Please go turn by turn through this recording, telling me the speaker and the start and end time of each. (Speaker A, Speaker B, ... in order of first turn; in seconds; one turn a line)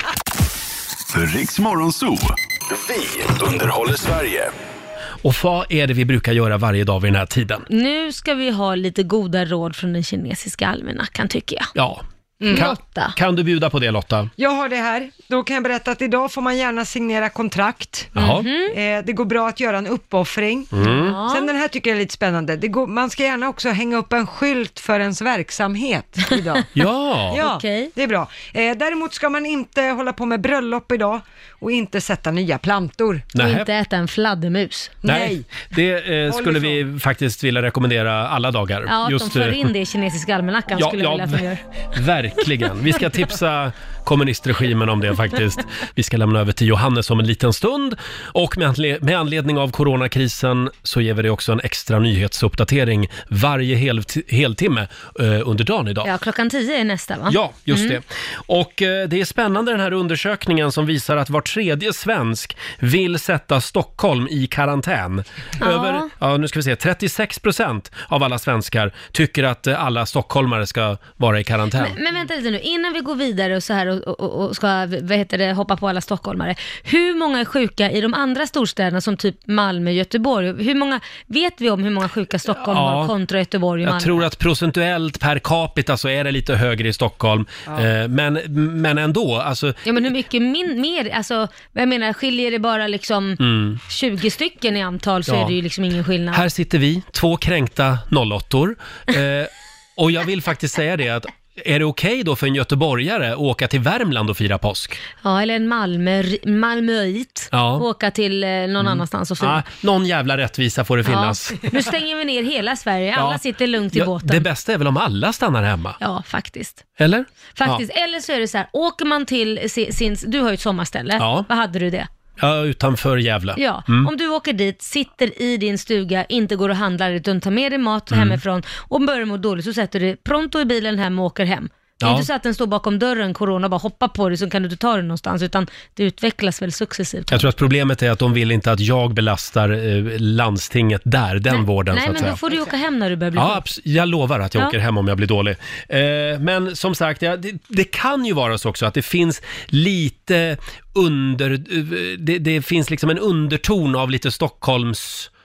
Speaker A: 1.1-4.5
Speaker B: 5.2-7.7
Speaker C: 7.7-11.7
Speaker B: 11.7-14.3
Speaker D: 12.4-12.7
Speaker C: 12.5-13.2
Speaker D: 14.4-18.1
Speaker B: 18.1-18.5
Speaker C: 18.2-18.8
Speaker D: 18.7-26.7
Speaker B: 20.7-21.2
Speaker C: 20.8-21.5
Speaker B: 26.7-27.4
Speaker D: 27.3-33.3
Speaker C: 27.4-27.9
Speaker B: 33.3-33.7
Speaker C: 33.4-35.0
Speaker D: 35.0-35.5
Speaker B: 35.0-39.7
Speaker D: 36.3-36.8
Speaker C: 38.9-41.6
Speaker B: 40.7-56.1
Speaker C: 56.0-58.0
Speaker B: 57.3-72.0
Speaker C: 65.6-66.1
Speaker C: 71.8-84.2
Speaker B: 82.6-83.1
Speaker B: 83.8-89.8
Speaker C: 89.8-96.4
Speaker B: 93.4-93.8
Speaker B: 95.2-95.5
Speaker B: 96.3-105.0
Speaker C: 105.2-109.6
Speaker B: 107.5-107.8
Speaker B: 108.8-111.7
Speaker C: 111.0-114.5
Speaker B: 113.2-113.4
Speaker B: 113.9-116.0
Speaker C: 116.0-116.8
Speaker B: 117.0-117.8
Speaker C: 117.5-122.1
Speaker B: 121.2-121.5
Speaker B: 122.4-124.1
Speaker C: 123.6-137.5
Speaker B: 128.1-128.4
Speaker B: 132.0-132.3
Speaker B: 137.3-142.4
Speaker C: 141.5-143.7
Speaker D: 142.1-142.7
Speaker B: 143.3-155.3